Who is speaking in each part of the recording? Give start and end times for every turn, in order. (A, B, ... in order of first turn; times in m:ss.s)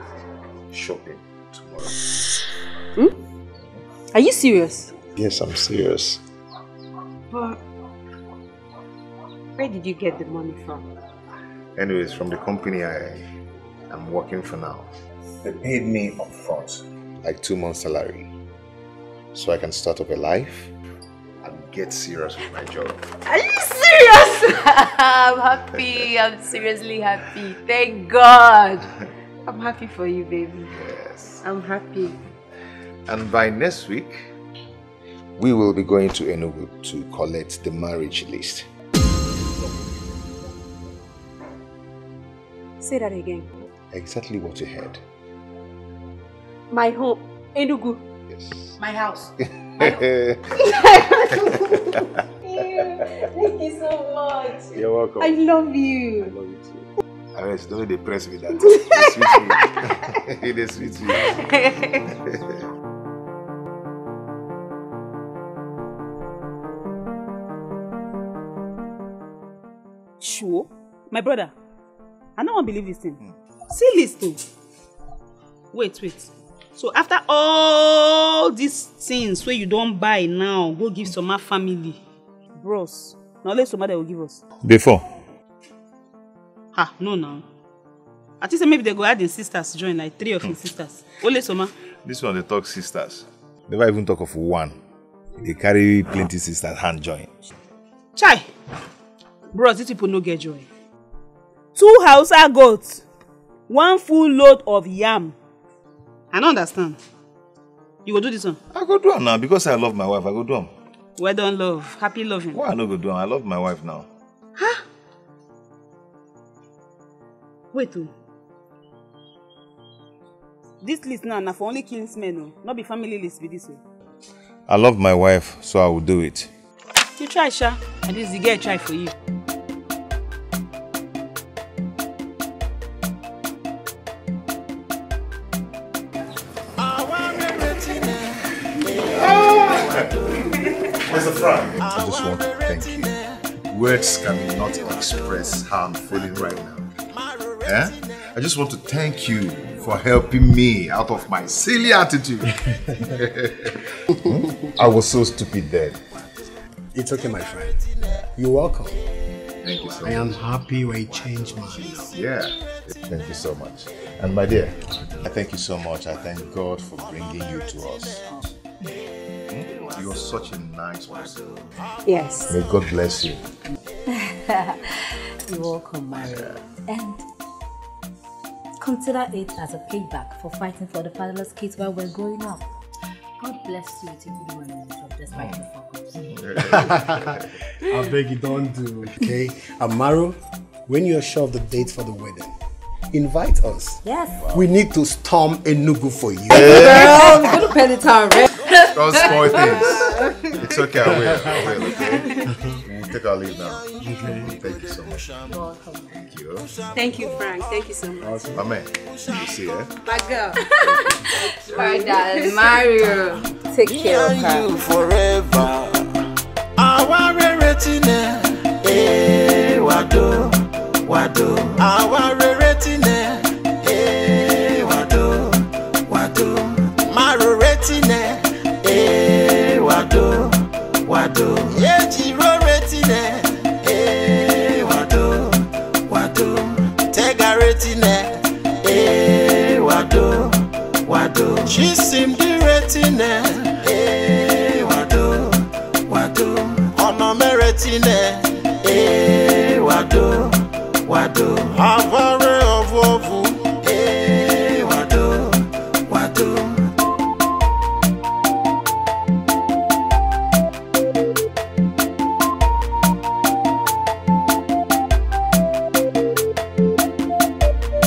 0:00.7-0:02.0 A
0:04.1-0:05.0 B
0:05.2-0:06.2 A
0:07.3-0:07.6 B
0:09.6-0:10.9 B
0:11.8-0:13.3 A
0:13.9-0:14.9 A
0:15.4-0:18.3 A
0:19.3-0:20.7 A
0:21.4-0:23.0 A
0:23.3-0:28.9 B
0:29.4-0:30.8 B
0:30.7-0:31.4 A
0:31.4-0:32.2 B
0:33.1-0:34.3 A
0:35.4-0:38.7 A
0:42.8-0:43.5 B
0:43.9-0:45.0 A
0:46.7-0:48.0 B
0:48.3-0:48.8 A
0:48.8-0:50.0 B
0:49.8-0:51.8 A
0:50.6-0:56.4 B
0:54.7-0:55.4 A
0:56.2-1:01.4 A
0:58.6-1:00.1 B
1:01.1-1:02.1 B
1:02.1-1:02.6 A
1:10.2-1:11.5 C
1:12.4-1:13.2 C
1:13.7-1:14.4 C
1:15.7-1:22.0 C
1:22.6-1:24.4 C
1:24.6-1:25.1 A
1:26.8-1:27.4 C
1:28.4-1:31.7 C
1:32.0-1:34.8 A
1:35.4-1:37.4 A
1:38.2-1:38.5 C
1:39.5-1:40.7 C
1:41.8-1:43.0 C
1:43.7-1:45.4 C
1:46.3-1:47.0 C
1:48.1-1:48.6 C
1:48.7-1:50.7 A
1:51.2-1:52.6 C
1:52.5-1:54.1 A
1:57.7-1:58.1 C
2:00.8-2:03.8 C
2:04.7-2:06.5 A
2:07.2-2:09.1 C
2:16.8-2:23.4 D
2:19.1-2:20.1 A
2:20.9-2:23.2 A
2:23.7-2:26.9 A
2:25.1-2:25.4 D
2:27.1-2:28.2 D
2:27.6-2:36.0 A
2:36.9-2:39.0 E
2:39.6-2:40.4 A
2:40.0-2:42.2 E
2:41.8-2:48.3 A
2:47.3-2:48.2 D
2:49.5-2:51.6 A
2:52.0-2:52.6 B
2:52.5-2:53.5 A
2:54.1-2:57.2 F
2:58.8-3:02.7 F
3:03.4-3:06.6 F
3:05.3-3:05.6 A
3:06.3-3:07.5 A
3:06.7-3:07.3 E
3:07.9-3:12.6 E
3:13.1-3:17.4 E
3:14.0-3:14.4 F
3:16.5-3:17.2 A
3:16.6-3:20.0 F
3:18.9-3:25.3 A
3:19.9-3:20.3 B
3:21.0-3:21.7 E
3:21.9-3:22.3 D
3:23.7-3:25.6 D
3:24.0-3:24.4 E
3:25.6-3:26.0 B
3:26.1-3:26.7 A
3:26.8-3:27.2 D
3:26.9-3:28.7 B
3:28.5-3:29.9 A
3:30.0-3:32.8 B
3:30.7-3:34.7 F
3:33.8-3:36.2 D
3:36.8-4:16.9 D